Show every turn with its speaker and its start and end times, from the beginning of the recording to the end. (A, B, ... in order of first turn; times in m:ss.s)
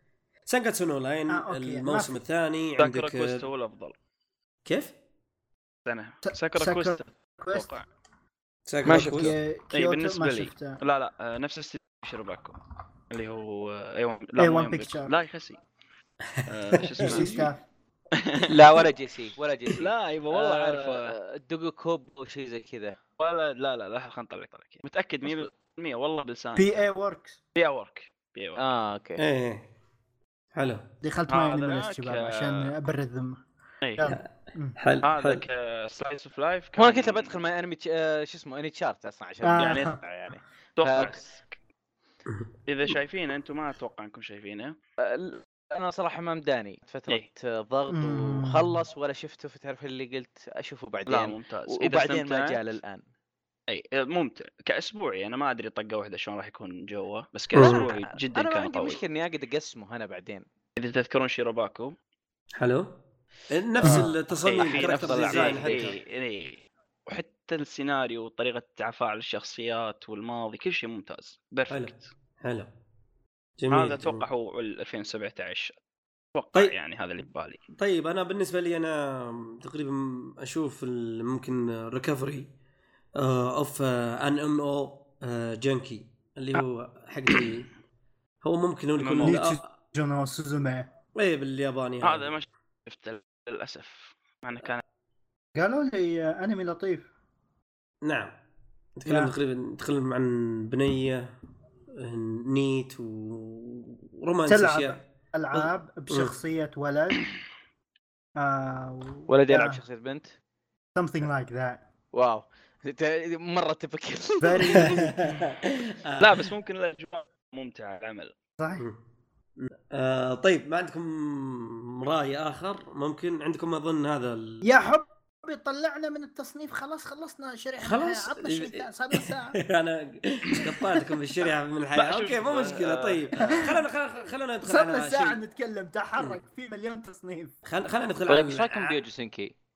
0:00.4-0:03.4 A
0:01.3-0:02.2 B
0:02.8-0:03.9 C
0:04.6-0:04.9 A
0:05.8-0:07.8 C
0:06.2-0:07.7 B
0:08.7-0:09.3 A
0:08.8-0:09.3 D
0:08.9-0:10.8 B
0:09.7-0:12.6 C
0:13.1-0:15.6 C
0:14.4-0:15.1 B
0:16.3-0:17.3 A
0:16.4-0:17.5 C
0:17.0-0:17.6 B
0:18.5-0:23.0 D
0:19.7-0:21.1 C
0:23.2-0:26.8 C
0:26.6-0:27.4 B
0:27.5-0:28.6 C
0:28.6-0:29.2 D
0:29.2-0:29.6 A
0:30.5-0:30.8 A
0:31.0-0:33.4 B
0:31.3-0:32.7 C
0:33.8-0:34.1 C
0:34.0-0:34.8 B
0:34.8-0:35.4 A
0:35.0-0:37.3 C
0:36.8-0:41.2 D
0:39.4-0:40.0 B
0:39.6-0:39.9 C
0:40.8-0:41.5 C
0:42.7-0:44.8 C
0:45.0-0:53.0 D
0:47.9-0:48.8 B
0:51.1-0:52.6 C
0:53.7-0:59.0 C
0:57.5-0:57.8 A
0:57.6-1:00.4 D
1:00.8-1:01.9 C
1:02.6-1:03.0 A
1:03.5-1:06.0 A
1:03.8-1:05.9 D
1:03.9-1:12.0 C
1:11.7-1:12.7 A
1:13.6-1:14.2 A
1:13.7-1:15.7 C
1:16.3-1:17.6 C
1:17.8-1:22.5 A
1:23.2-1:27.7 A
1:28.4-1:29.6 A
1:29.0-1:29.4 C
1:29.2-1:30.9 B
1:31.1-1:32.3 A
1:32.0-1:34.8 C
1:35.6-1:37.1 B
1:38.0-1:38.3 A
1:39.0-1:41.3 A
1:39.0-1:39.3 B
1:42.0-1:45.0 A
1:44.5-1:47.3 B
1:45.5-1:46.3 A
1:48.4-1:49.8 B
1:49.3-1:50.3 D
1:51.0-1:51.8 B
1:52.1-1:55.0 D
1:54.4-1:55.4 B
1:54.8-1:56.5 A
1:56.2-1:58.3 C
1:58.6-1:58.9 B
1:59.6-2:04.6 A
2:04.6-2:09.6 B
2:07.8-2:15.4 A
2:10.6-2:11.0 B
2:11.9-2:13.6 C
2:13.4-2:13.8 B
2:14.6-2:17.6 B
2:17.6-2:19.0 A
2:18.3-2:19.5 D